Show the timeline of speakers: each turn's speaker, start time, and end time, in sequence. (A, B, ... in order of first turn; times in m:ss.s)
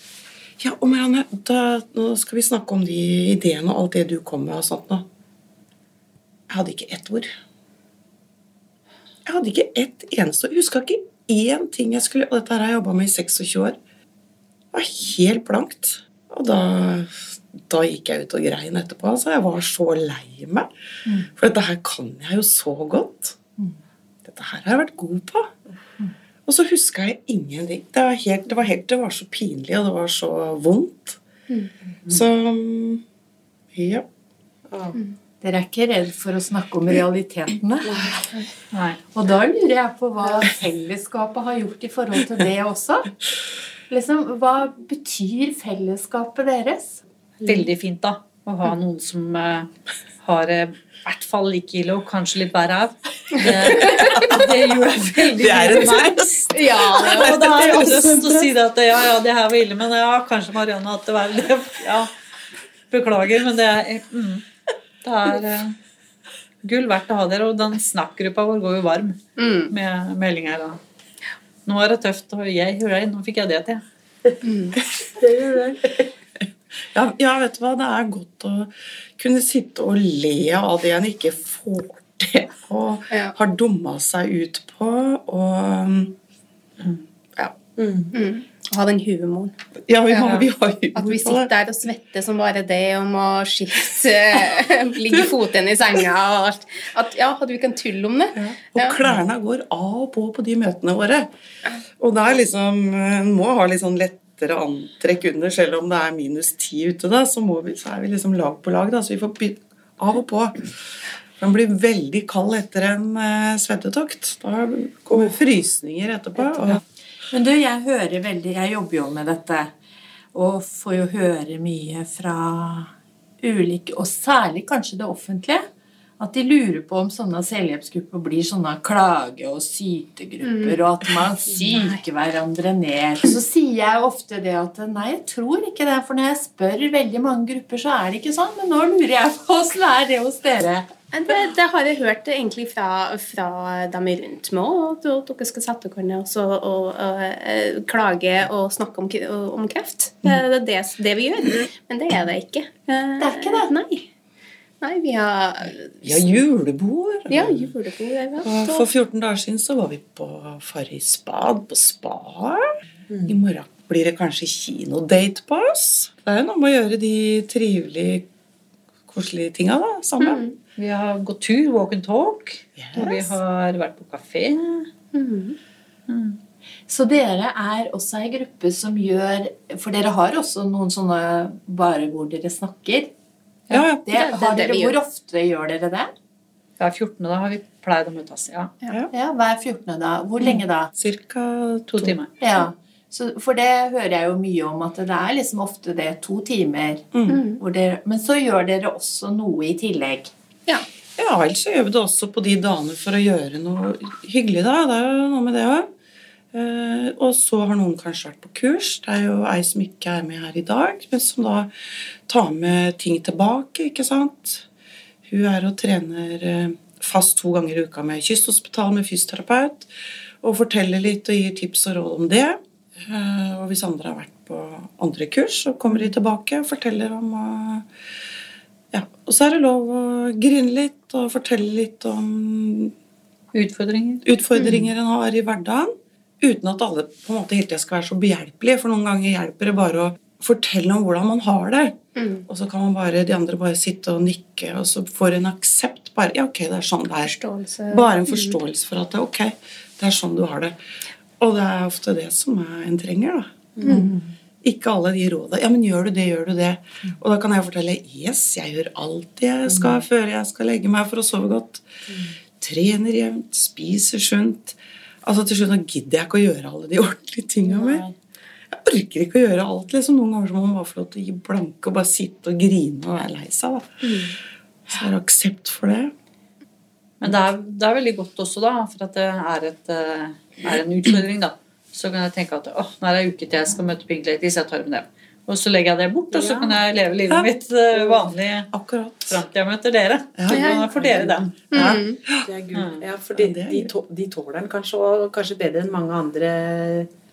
0:00.6-0:05.1 A
0:06.5-0:07.3 A
0:09.2-0:13.8 A
0:14.7-0:20.7 A
0:21.1-0:21.3 B
0:21.3-0:23.4 A
0:24.2-0:25.5 A
0:26.5-0:31.2 A
0:32.1-0:33.0 A
0:33.7-0:34.1 A
0:34.7-0:35.0 C
0:35.4-0:38.0 B
0:37.9-0:38.2 C
0:38.7-0:39.0 D
0:39.1-0:43.1 B
0:43.9-0:47.0 B
0:47.4-0:49.7 D
0:50.2-1:02.1 D
0:53.5-0:54.4 E
0:53.6-0:54.6 A
0:55.3-0:58.5 A
0:56.5-0:57.4 E
0:57.8-0:58.1 C
1:02.9-1:04.4 D
1:05.0-1:05.8 D
1:06.6-1:10.8 D
1:09.4-1:09.7 E
1:11.7-1:13.8 D
1:14.4-1:14.8 E
1:15.1-1:16.1 C
1:16.9-1:26.2 A
1:27.8-1:28.1 C
1:28.1-1:29.5 E
1:29.9-1:31.5 A
1:30.1-1:39.0 E
1:38.4-1:41.3 A
1:42.0-1:56.8 A
1:57.3-1:59.7 B
2:00.3-2:05.7 B
2:06.2-2:20.9 B
2:10.4-2:10.8 E
2:21.1-2:34.1 E
2:33.2-2:33.7 B
2:34.8-2:36.4 E
2:36.0-2:37.7 A
2:37.3-2:38.9 E
2:38.4-2:42.7 A
2:43.1-2:43.4 C
2:43.3-2:48.3 A
2:49.1-2:50.4 A
2:50.2-2:50.6 E
2:50.8-2:54.9 D
2:52.8-2:53.3 A
2:55.1-2:55.6 E
2:56.1-2:56.4 D
2:56.9-3:03.1 B
3:03.7-3:04.0 A
3:04.0-3:06.1 B
3:04.1-3:05.0 E
3:06.8-3:08.7 D
3:09.1-3:10.9 B
3:11.0-3:12.2 A
3:11.9-3:12.3 D
3:12.4-3:20.3 B
3:17.1-3:17.4 A
3:17.3-3:17.6 E
3:21.2-3:25.9 A
3:26.5-3:31.7 A
3:32.3-3:34.7 A
3:35.2-3:39.9 A
3:40.4-3:47.9 A
3:48.9-3:52.9 A
3:53.5-3:54.2 D
3:54.2-4:07.4 A
3:54.6-3:54.8 E
4:02.2-4:02.4 E
4:07.2-4:08.6 E
4:07.9-4:10.8 A
4:11.4-4:13.6 A
4:13.8-4:14.1 C
4:13.9-4:14.3 B
4:14.6-4:21.9 A
4:19.7-4:20.0 C
4:22.1-4:22.4 C
4:22.6-4:28.0 A
4:27.7-4:28.1 C
4:28.7-4:34.3 A
4:34.0-4:34.4 E
4:34.9-4:36.1 A
4:37.2-4:48.7 D
4:46.3-4:46.8 C
4:48.7-4:49.4 A
4:49.3-4:51.5 D
4:50.4-4:52.5 A
4:50.5-4:50.8 E
4:51.0-4:51.3 C
4:51.7-4:52.2 E
4:52.4-4:57.1 C
4:52.7-4:53.0 D
4:53.4-4:53.9 A